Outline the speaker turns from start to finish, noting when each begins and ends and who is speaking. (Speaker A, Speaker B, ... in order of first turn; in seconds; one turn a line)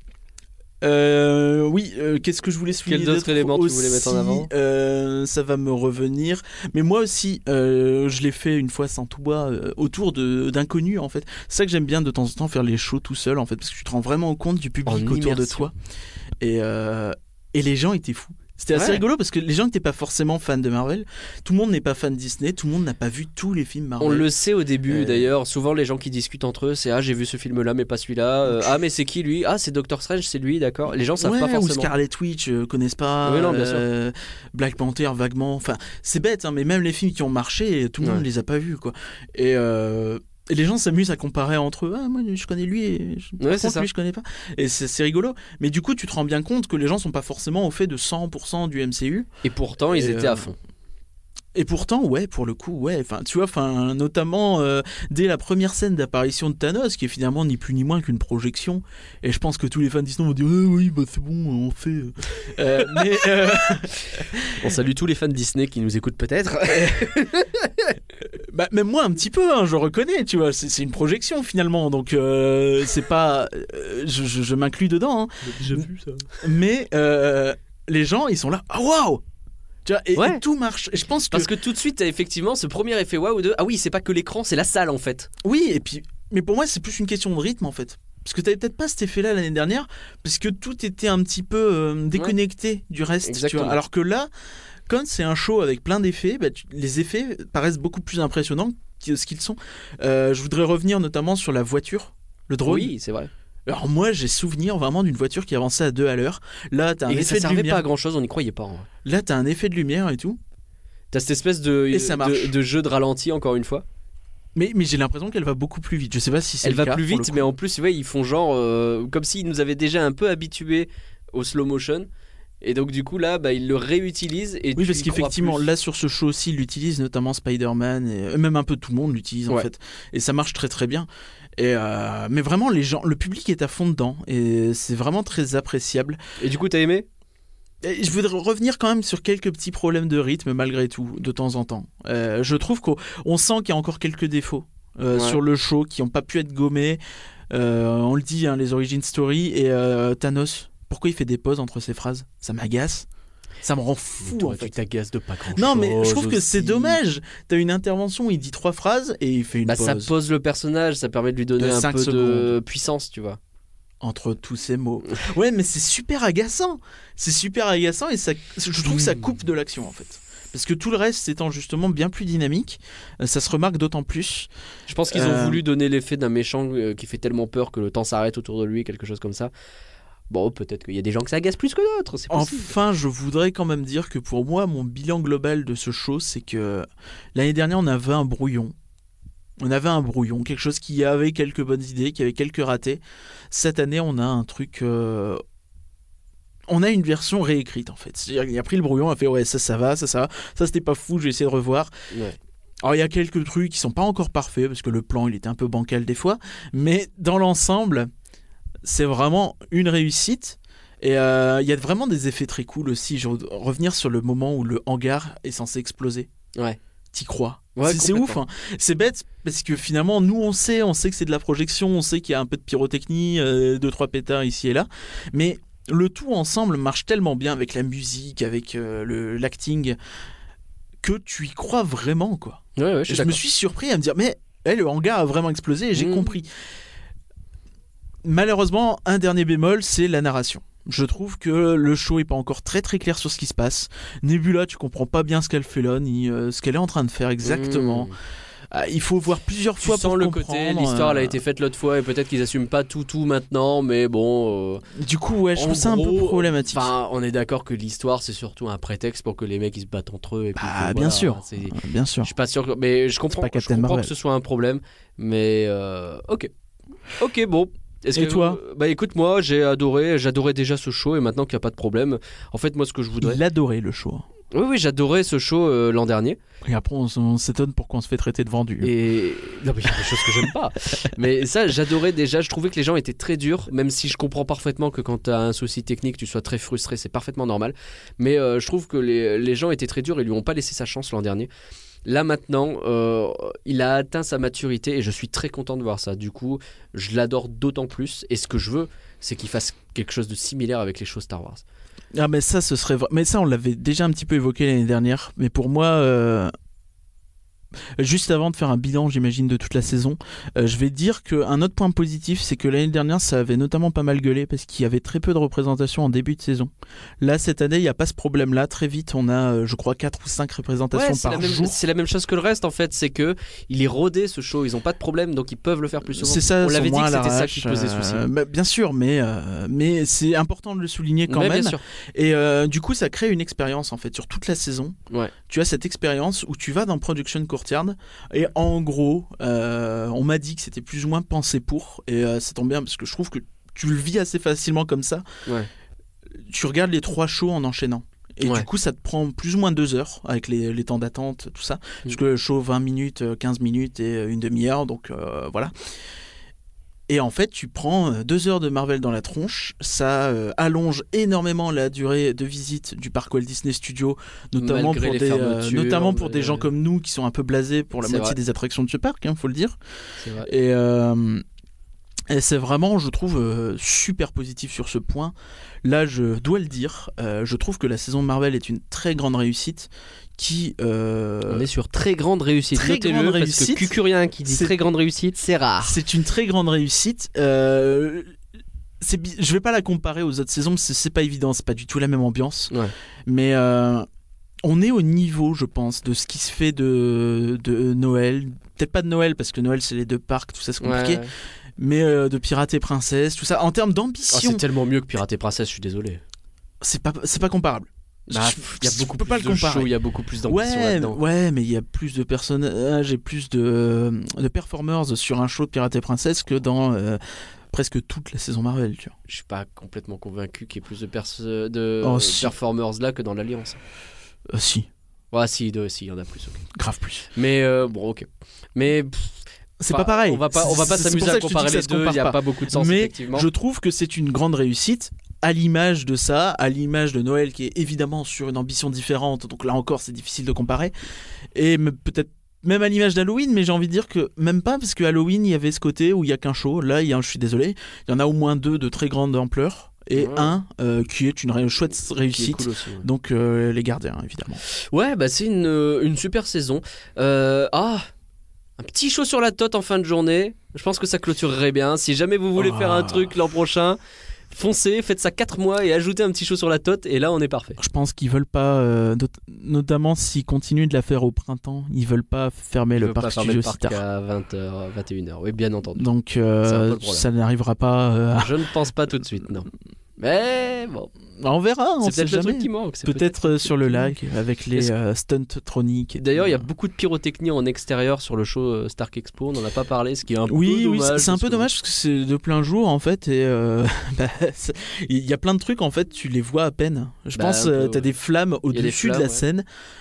Speaker A: 0.8-15.7
Speaker B: 2.9-4.5
Speaker B: 14.8-15.7
Speaker A: 16.4-24.3
Speaker B: 18.7-19.0
Speaker B: 24.0-31.9
Speaker A: 24.9-25.3
Speaker A: 28.5-28.8
Speaker A: 31.2-49.3
Speaker B: 33.2-33.8
Speaker B: 43.4-43.9
Speaker B: 49.4-50.5
Speaker A: 49.9-50.5
Speaker A: 51.5-64.7
Speaker B: 64.1-67.5
Speaker A: 66.7-79.2
Speaker B: 75.4-76.4
Speaker A: 79.8-81.5
Speaker B: 80.2-80.4
Speaker B: 81.3-85.3
Speaker A: 85.4-94.3
Speaker B: 93.2-93.8
Speaker A: 94.9-102.9
Speaker B: 102.7-103.3
Speaker A: 103.7-107.8
Speaker B: 107.1-108.9
Speaker A: 109.0-110.4
Speaker B: 111.1-113.8
Speaker A: 111.9-112.5
Speaker A: 114.5-117.5
Speaker B: 116.6-122.1
Speaker B: 122.6-125.7
Speaker A: 124.8-136.2
Speaker B: 136.4-137.1
Speaker A: 137.8-153.1
Speaker B: 145.1-145.4
Speaker A: 153.6-154.7
Speaker B: 154.2-157.0
Speaker A: 155.5-160.1
Speaker B: 159.7-163.4
Speaker A: 161.6-162.6
Speaker A: 164.0-174.5
Speaker B: 174.9-179.5
Speaker A: 175.1-175.6
Speaker B: 180.3-182.7
Speaker A: 182.3-188.7
Speaker A: 189.6-195.4
Speaker A: 196.7-201.9
Speaker B: 202.1-202.4
Speaker A: 202.8-208.1
Speaker A: 208.8-216.3
Speaker A: 217.1-230.0
Speaker B: 217.8-218.4
Speaker A: 231.0-236.5
Speaker B: 232.8-233.4
Speaker B: 235.9-236.3
Speaker A: 238.2-248.1
Speaker B: 247.4-248.1
Speaker A: 248.7-251.4
Speaker B: 249.8-254.8
Speaker A: 254.9-256.9
Speaker B: 255.6-266.5
Speaker A: 260.6-262.3
Speaker A: 263.3-264.1
Speaker B: 267.2-273.4
Speaker A: 268.1-268.6
Speaker A: 273.2-274.3
Speaker B: 274.5-276.4
Speaker A: 276.6-278.9
Speaker B: 278.8-291.5
Speaker A: 279.9-280.5
Speaker B: 292.0-301.6
Speaker A: 302.1-306.5
Speaker A: 308.0-321.8
Speaker B: 320.9-328.3
Speaker A: 326.0-334.9
Speaker B: 331.3-331.8
Speaker A: 335.5-345.2
Speaker A: 346.4-355.7
Speaker A: 357.1-369.8
Speaker B: 364.6-366.7
Speaker B: 368.0-368.4
Speaker B: 370.2-370.5
Speaker A: 370.4-371.4
Speaker A: 372.3-381.6
Speaker B: 381.5-386.0
Speaker A: 382.7-383.9
Speaker A: 384.4-384.7
Speaker A: 385.8-388.3
Speaker A: 389.0-392.7
Speaker A: 393.2-394.1
Speaker A: 394.6-401.2
Speaker B: 400.8-401.3
Speaker A: 401.8-404.6
Speaker B: 404.3-406.2
Speaker A: 406.8-409.9
Speaker B: 408.3-411.2
Speaker A: 410.5-419.1
Speaker B: 419.3-423.8
Speaker A: 422.0-422.5
Speaker A: 424.5-424.9
Speaker B: 425.3-426.6
Speaker A: 426.7-427.3
Speaker B: 427.3-433.5
Speaker A: 429.8-440.9
Speaker A: 441.5-454.6
Speaker B: 450.1-450.6
Speaker B: 452.3-453.1
Speaker B: 454.7-458.1
Speaker B: 458.8-464.0
Speaker A: 462.6-463.4
Speaker B: 464.5-467.8
Speaker A: 467.8-474.0
Speaker B: 472.9-476.1
Speaker A: 476.0-478.5
Speaker B: 476.6-477.2
Speaker B: 478.4-481.1
Speaker A: 481.4-486.7
Speaker B: 482.0-484.0
Speaker B: 486.2-491.7
Speaker A: 490.5-499.6
Speaker B: 497.3-498.1
Speaker B: 498.7-499.4